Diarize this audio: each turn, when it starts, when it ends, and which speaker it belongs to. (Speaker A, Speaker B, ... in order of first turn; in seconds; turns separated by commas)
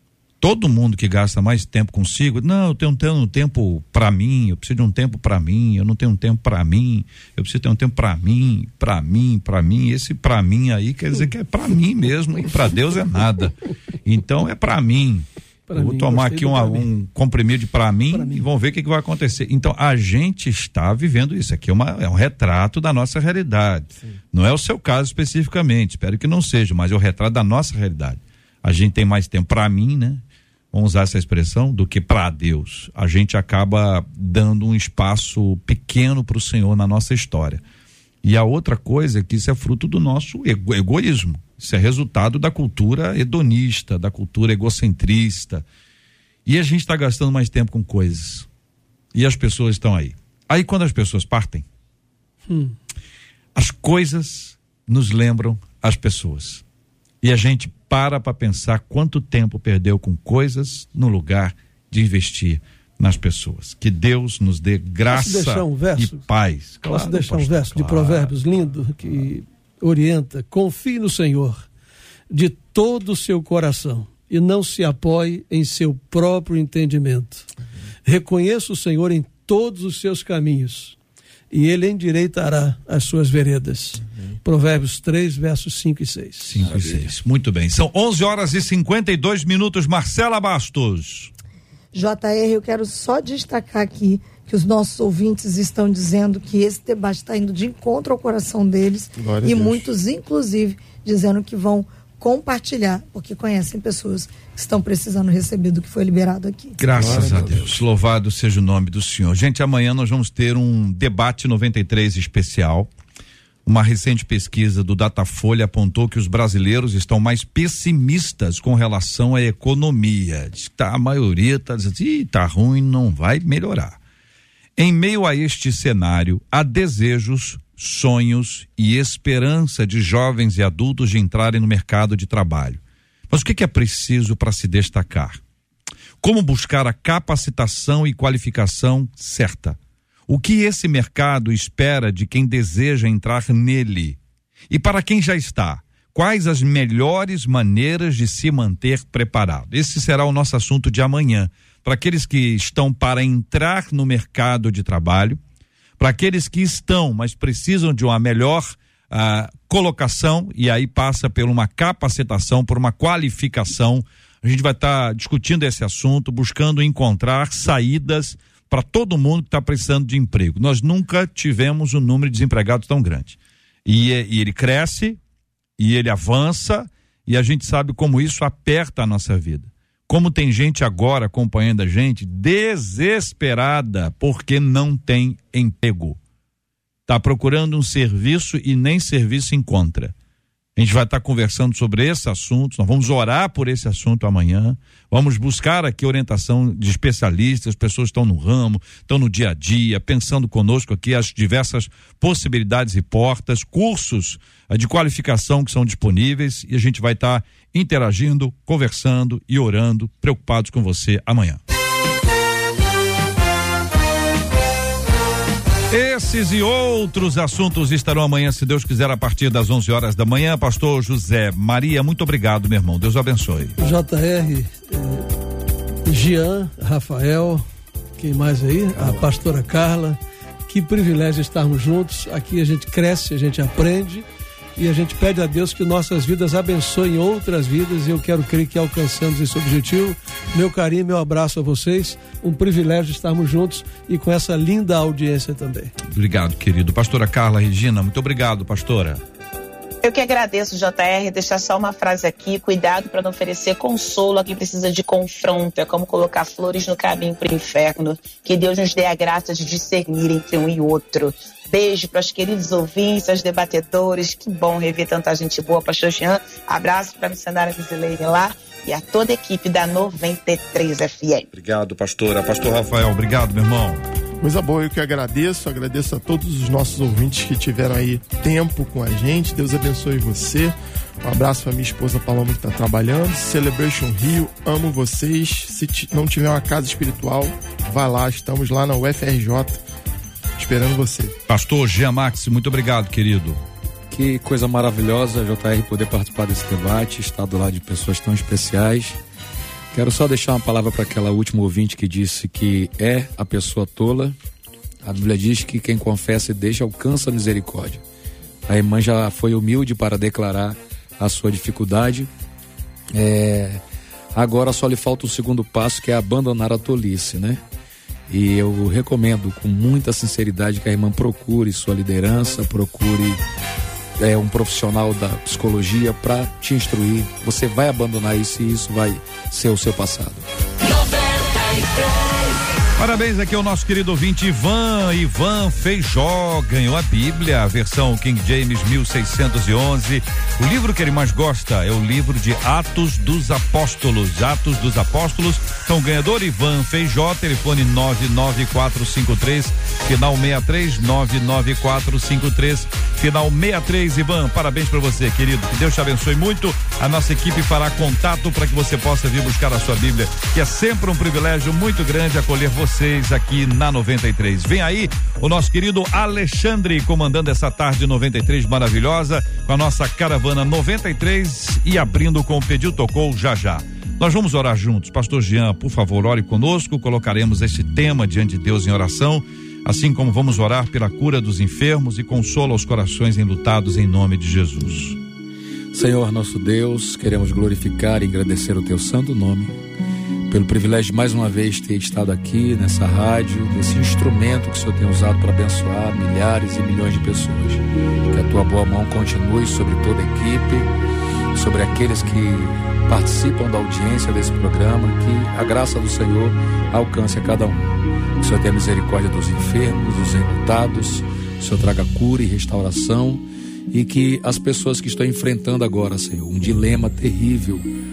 Speaker A: 0.4-37.6, Speaker B: 15.7-16.9, Speaker B: 18.1-18.5, Speaker A: 38.2-45.7, Speaker A: 46.5-48.5, Speaker A: 49.1-51.7, Speaker B: 52.5-52.8, Speaker A: 53.5-56.6, Speaker A: 57.2-68.4, Speaker B: 65.1-66.2, Speaker B: 66.8-71.7, Speaker B: 72.3-77.5, Speaker B: 78.0-81.0, Speaker B: 81.5-86.6, Speaker A: 86.4-91.3, Speaker C: 86.6-87.1, Speaker D: 91.9-106.9, Speaker E: 99.2-99.9, Speaker A: 106.8-112.9, Speaker E: 106.9-107.6, Speaker C: 107.0-107.4, Speaker A: 113.7-124.0, Speaker A: 124.8-135.4, Speaker A: 136.2-144.2, Speaker A: 144.7-155.4, Speaker A: 156.0-175.2, Speaker A: 175.8-186.2, Speaker A: 187.1-190.2, Speaker A: 190.8-211.6, Speaker A: 215.9-223.8, Speaker B: 223.8-225.3, Speaker B: 226.1-227.6, Speaker B: 228.2-245.9, Speaker A: 246.1-249.2, Speaker F: 250.0-271.5, Speaker A: 271.5-274.0, Speaker E: 274.4-289.8, Speaker E: 290.6-291.4, Speaker A: 291.5-293.6, Speaker C: 294.1-299.2, Speaker C: 299.9-304.4, Speaker C: 305.0-308.0, Speaker C: 308.7-312.3, Speaker C: 313.1-313.8, Speaker C: 314.3-317.6, Speaker C: 318.3-323.4, Speaker C: 324.2-331.3, Speaker A: 332.9-385.2, Speaker C: 385.9-389.8, Speaker C: 390.5-400.9, Speaker C: 401.5-417.9